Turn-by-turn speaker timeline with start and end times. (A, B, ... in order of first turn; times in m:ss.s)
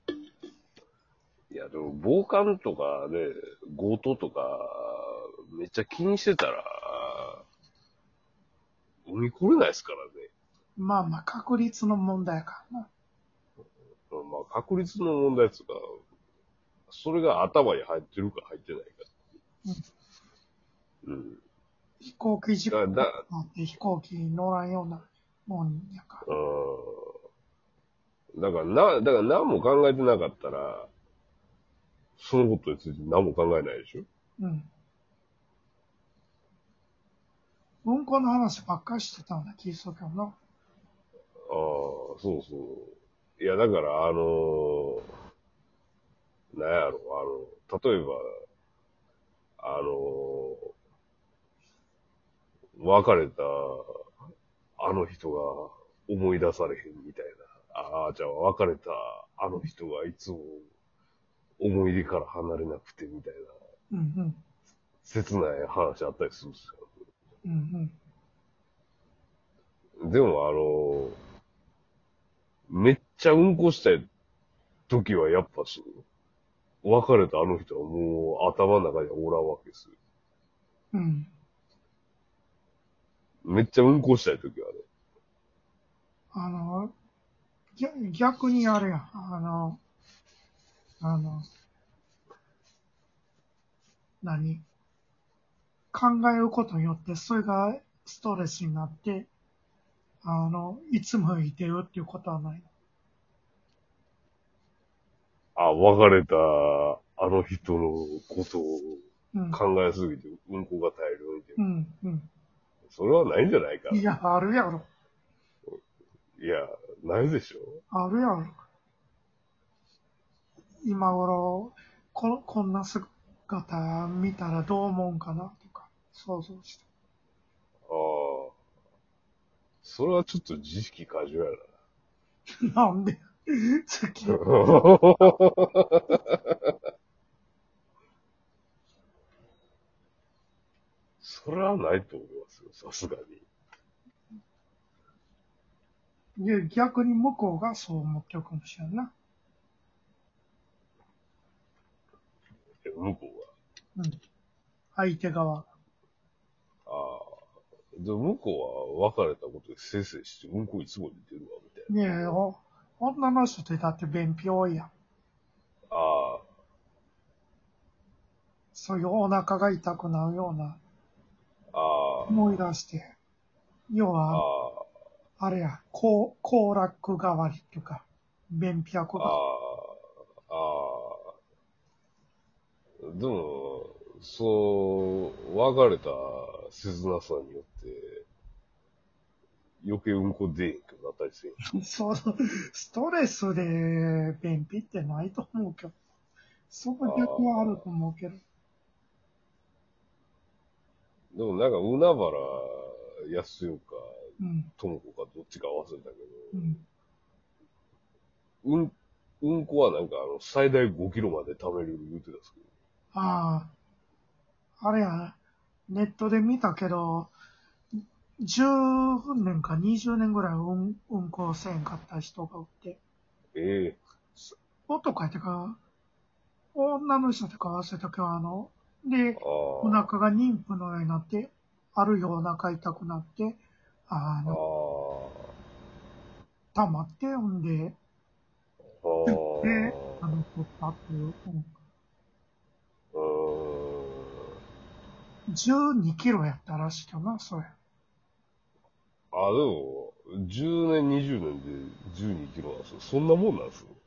0:01.5-0:07.4 A
0:09.0-0:10.3 A
0:10.8-0:12.9 B
0:14.1-0:15.8 A
0:16.9-0:19.1 A
0:21.0-0:21.4 A
0:22.0-0:26.2 B
0:22.7-0:23.2 A
0:26.2-0:27.1 A
0:28.3-0:30.9 A
0:32.2-0:34.0 A
0:34.4-0:34.7 B
0:37.8-0:40.4 B
0:41.5-0:45.1 A
0:46.5-0:48.2 A
0:49.6-0:50.7 A
0:52.8-0:53.9 A
0:54.8-1:00.6 A
1:01.6-1:03.5 A
1:03.9-1:04.4 B
1:05.0-1:06.8 A
1:07.4-1:08.0 B
1:10.0-1:11.2 A
1:12.7-1:14.0 A
1:14.9-1:16.0 A
1:16.8-1:19.9 A
1:20.9-1:21.3 B
1:23.4-1:24.8 A
1:26.3-1:26.9 B
1:27.8-1:29.8 B
1:31.0-1:31.4 B
1:34.2-1:34.6 B
1:35.9-1:39.3 B
1:40.2-1:42.7 B
1:45.6-1:51.6 A
1:49.3-1:49.6 B
1:51.6-1:52.3 B
1:52.9-1:54.0 A
1:53.9-1:54.9 B
1:56.4-1:57.8 A
1:57.9-1:58.5 B
2:00.8-2:06.8 B
2:07.9-2:08.5 A
2:09.8-2:11.7 A
2:12.7-2:14.8 B
2:14.3-2:16.4 A
2:21.2-2:23.4 A
2:26.4-2:29.1 B
2:32.8-2:33.5 A
2:34.9-2:35.7 B
2:36.9-2:37.4 A
2:38.0-2:42.4 A
2:41.9-2:44.9 B
2:45.9-2:46.4 A
2:48.7-2:50.8 B
2:51.7-2:52.6 A
2:52.3-2:53.2 B
2:53.9-2:54.4 B
2:54.3-2:54.9 A
2:55.4-2:59.4 B
2:59.2-3:00.0 A
3:00.5-3:01.3 A
3:03.0-3:08.3 A
3:09.8-3:11.6 A
3:11.7-3:16.0 B
3:16.7-3:18.4 B
3:17.0-3:17.8 A
3:21.3-3:24.0 A
3:24.4-3:24.7 B
3:24.8-3:26.8 A
3:26.5-3:26.8 B
3:28.6-3:32.6 A
3:33.1-3:33.7 B
3:34.8-3:37.3 B
3:38.4-3:43.0 B
3:43.5-3:44.0 A
3:44.4-3:45.8 B
3:46.7-3:54.6 B
3:49.4-3:50.1 A
3:54.4-3:55.5 A
3:56.7-3:58.0 B
3:59.0-4:00.2 A
3:59.2-4:01.7 B
4:03.1-4:04.5 A
4:05.5-4:07.7 B
4:09.3-4:13.9 A